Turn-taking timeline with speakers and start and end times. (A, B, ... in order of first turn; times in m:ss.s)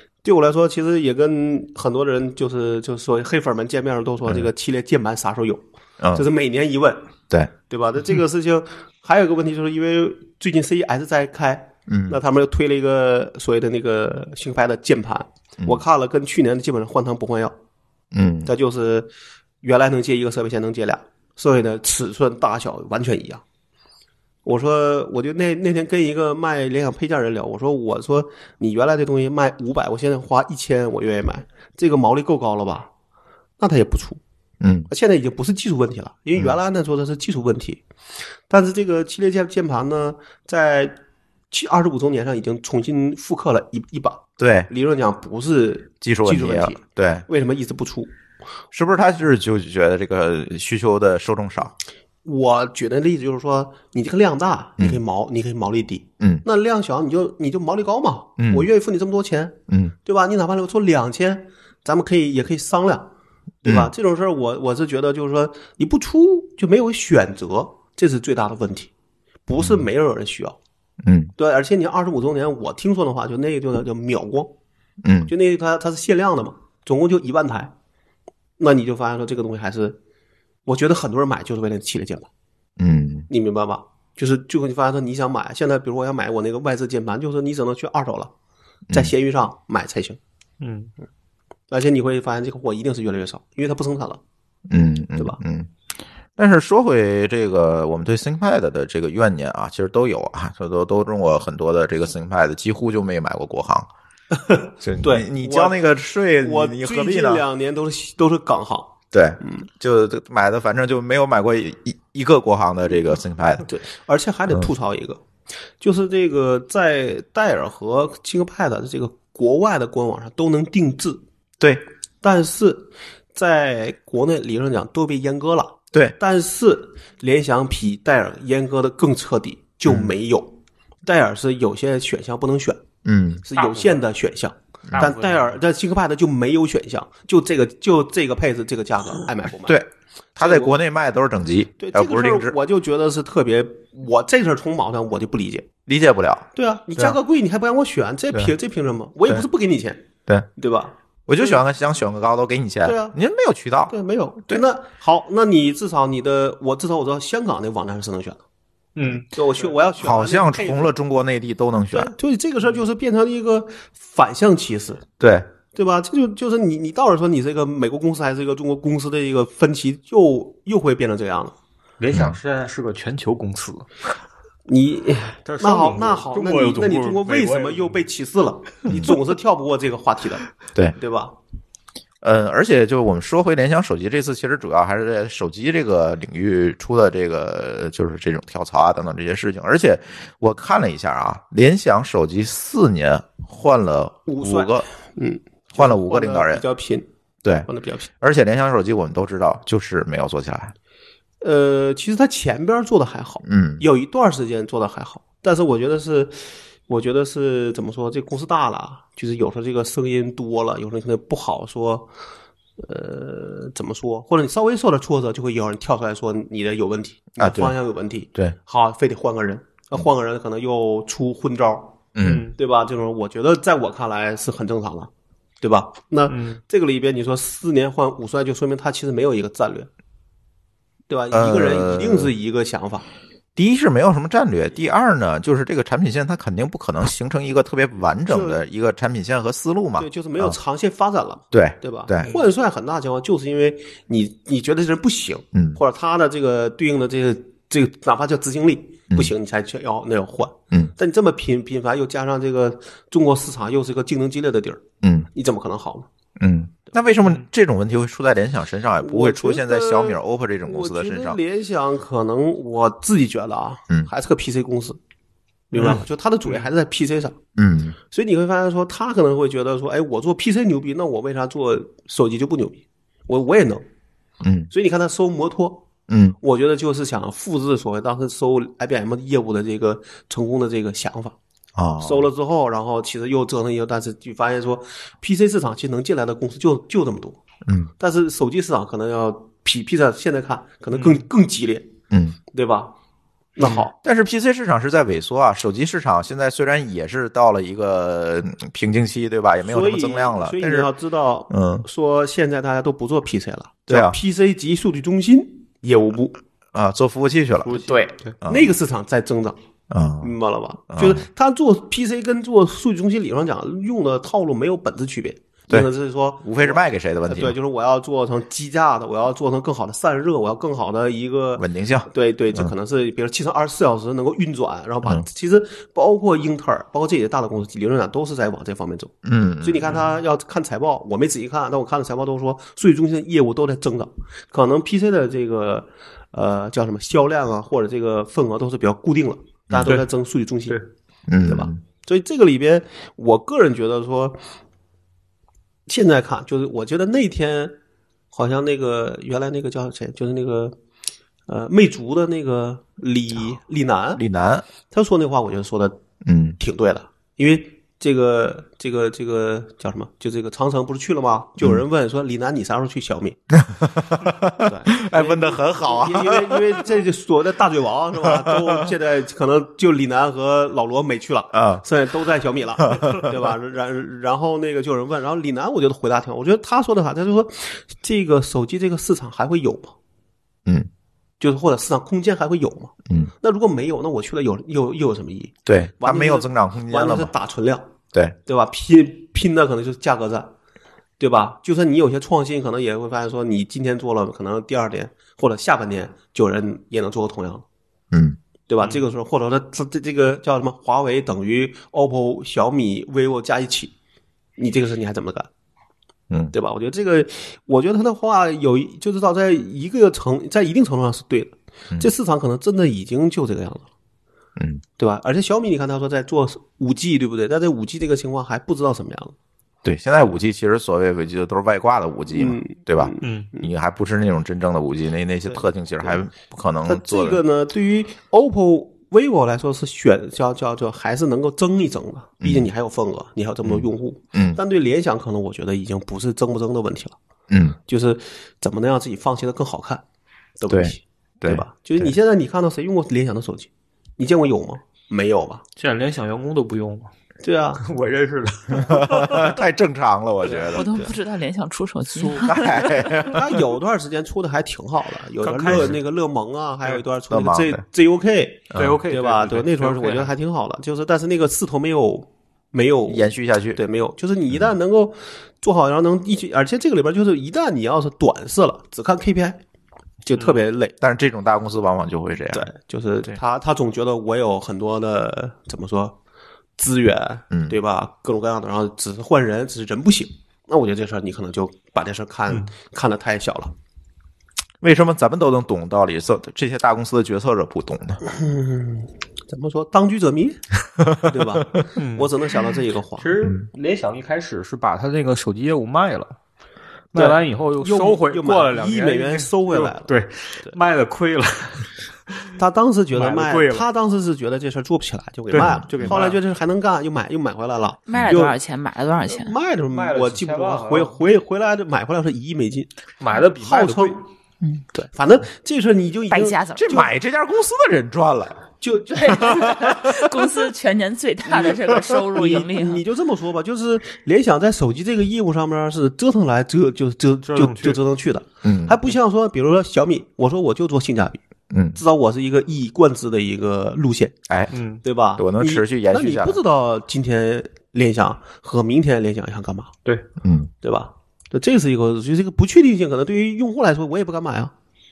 0:00.2-0:07.0 A
0:06.0-0:06.2 B
0:07.7-0:17.6 A
0:11.9-0:12.2 B
0:18.1-0:18.5 B
0:18.5-0:19.1 A
0:19.6-0:23.4 A
0:24.4-0:32.9 A
0:33.6-0:34.2 A
0:34.6-0:34.9 B
0:34.9-0:37.8 A
0:38.5-0:41.0 A
0:41.5-0:48.1 A
0:44.4-0:44.7 B
0:46.0-0:47.3 B
0:48.7-0:51.7 B
0:52.2-1:03.1 A
0:58.4-0:58.7 B
0:59.7-0:59.9 B
1:03.6-1:08.9 A
1:03.6-1:03.9 B
1:09.5-1:10.6 A
1:09.6-1:09.8 B
1:11.0-1:11.3 B
1:11.4-1:14.5 A
1:15.0-1:15.3 B
1:15.3-1:17.7 A
1:18.6-1:20.0 A
1:20.7-1:22.3 A
1:22.8-1:23.3 B
1:23.3-1:28.3 A
1:28.9-1:30.2 A
1:30.6-1:30.9 C
1:31.7-1:34.2 A
1:34.7-1:35.7 B
1:36.4-1:43.9 B
1:44.5-1:45.8 A
1:44.8-1:47.4 B
1:46.4-1:49.7 A
1:49.1-1:53.7 B
1:53.6-1:55.2 A
1:55.8-2:01.2 A
2:02.2-2:12.8 A
2:09.9-2:10.1 B
2:13.0-2:13.4 B
2:13.4-2:19.8 A
2:13.6-2:14.0 C
2:14.9-2:15.1 B
2:14.9-2:15.6 C
2:19.6-2:22.6 B
2:20.4-2:20.8 A
2:21.8-2:25.7 A
2:25.9-2:27.2 B
2:26.6-2:31.6 A
2:31.3-2:33.9 B
2:32.8-2:33.2 A
2:33.9-2:38.4 A
2:39.0-2:39.6 C
2:39.2-2:40.9 A
2:40.0-2:42.1 B
2:41.9-2:45.0 A
2:45.2-2:45.5 B
2:45.7-2:51.5 A
2:52.0-2:53.9 C
2:52.1-2:52.4 B
2:54.7-3:01.4 A
2:55.5-2:58.0 C
2:58.9-2:59.2 B
3:02.2-3:14.9 B
3:14.3-3:17.1 A
3:15.7-3:16.6 B
3:17.6-3:18.1 A
3:18.2-3:20.7 B
3:21.4-3:32.1 A
3:23.4-3:23.8 B
3:32.8-3:42.0 A
3:37.4-3:37.7 B
3:42.2-3:42.5 B
3:42.2-3:42.6 C
3:42.6-3:45.1 A
3:45.6-3:49.9 A
3:46.3-3:46.6 C
3:51.1-3:53.1 A
3:51.3-3:52.3 B
3:53.6-4:00.6 B
3:58.3-3:58.6 A
4:00.0-4:16.1 A
4:01.5-4:02.3 B
4:05.5-4:05.8 B
4:15.0-4:15.3 B
4:16.4-4:21.4 B
4:19.0-4:25.0 A
4:25.7-4:27.4 A
4:25.8-4:26.7 C
4:27.6-4:28.0 B
4:28.1-4:33.8 A
4:34.4-4:34.7 B
4:34.7-4:35.9 A
4:36.1-4:36.4 B
4:36.4-4:41.4 A
4:41.8-4:42.3 B
4:42.0-4:47.4 A
4:47.7-4:47.9 B
4:48.0-4:51.9 A
4:50.9-4:51.2 C
4:52.1-4:52.4 B
4:52.5-4:52.9 A
4:53.6-4:53.9 A
4:53.6-5:00.9 B
4:59.6-5:06.4 A
5:01.5-5:01.9 B
5:03.9-5:04.2 B
5:06.7-5:08.7 B
5:07.7-5:09.6 A
5:09.9-5:10.3 B
5:10.2-5:40.8 A
5:10.9-5:11.2 B
5:16.4-5:17.5 B
5:21.6-5:22.7 B
5:29.2-5:29.9 B
5:29.9-5:30.1 C
5:41.3-5:41.8 B
5:41.5-5:44.4 A
5:45.9-5:47.8 A
5:48.3-5:50.8 A
5:51.5-5:54.2 A
5:54.2-5:54.6 B
5:54.9-5:56.0 A
5:56.2-5:56.6 B
5:56.6-6:03.4 A
6:03.5-6:06.8 B
6:04.6-6:19.9 A
6:11.5-6:11.8 B
6:12.9-6:13.3 B
6:21.4-6:27.9 A
6:25.7-6:27.3 B
6:28.5-6:30.5 A
6:31.2-6:37.6 A
6:38.1-6:38.4 B
6:38.7-6:43.9 A
6:44.6-6:45.5 A
6:46.5-6:53.9 A
6:54.6-6:54.8 B
6:55.0-6:59.3 A
6:59.8-7:07.4 B
7:02.3-7:03.7 A
7:03.2-7:03.5 C
7:05.5-7:06.2 A
7:06.8-7:17.2 A
7:12.4-7:12.7 B
7:13.6-7:14.6 B
7:17.5-7:17.8 B
7:17.9-7:20.0 A
7:20.6-7:25.6 A
7:20.7-7:22.1 B
7:25.8-7:27.1 C
7:27.4-7:27.8 A
7:27.8-7:29.6 C
7:28.7-7:30.9 B
7:30.4-7:31.1 A
7:30.7-7:33.2 D
7:32.2-7:33.6 B
7:33.2-7:49.6 A
7:35.4-7:36.0 C
7:37.3-7:37.8 B
7:38.7-7:39.0 B
7:38.8-7:40.3 C
7:43.1-7:43.8 B
7:50.3-7:50.9 A
7:51.0-7:52.7 B
7:52.5-7:56.2 A
7:56.8-8:03.7 A
7:57.5-7:57.8 B
8:04.8-8:08.2 B
8:08.2-8:13.3 A
8:11.0-8:11.4 B
8:12.0-8:12.3 C
8:13.2-8:16.4 C
8:17.1-8:22.5 C
8:17.2-8:20.8 A
8:22.6-8:28.6 A
8:23.1-8:23.9 C
8:25.5-8:26.4 C
8:25.6-8:26.2 B
8:28.1-8:29.6 D
8:29.3-8:34.2 A
8:29.9-8:31.2 C
8:33.2-8:34.2 C
8:34.9-8:37.1 A
8:36.3-8:37.0 D
8:36.8-8:38.7 B
8:38.8-8:39.7 A
8:39.1-8:43.0 D
8:39.3-8:40.6 B
8:41.4-8:51.4 A
8:47.5-8:48.0 C
8:48.6-8:49.0 B
8:51.7-8:52.0 B
8:52.0-8:54.4 A
8:54.5-8:54.7 B
8:54.7-8:55.0 C
8:55.0-8:59.9 A
8:55.4-8:56.6 B
9:00.4-9:00.7 B
9:00.8-9:04.7 A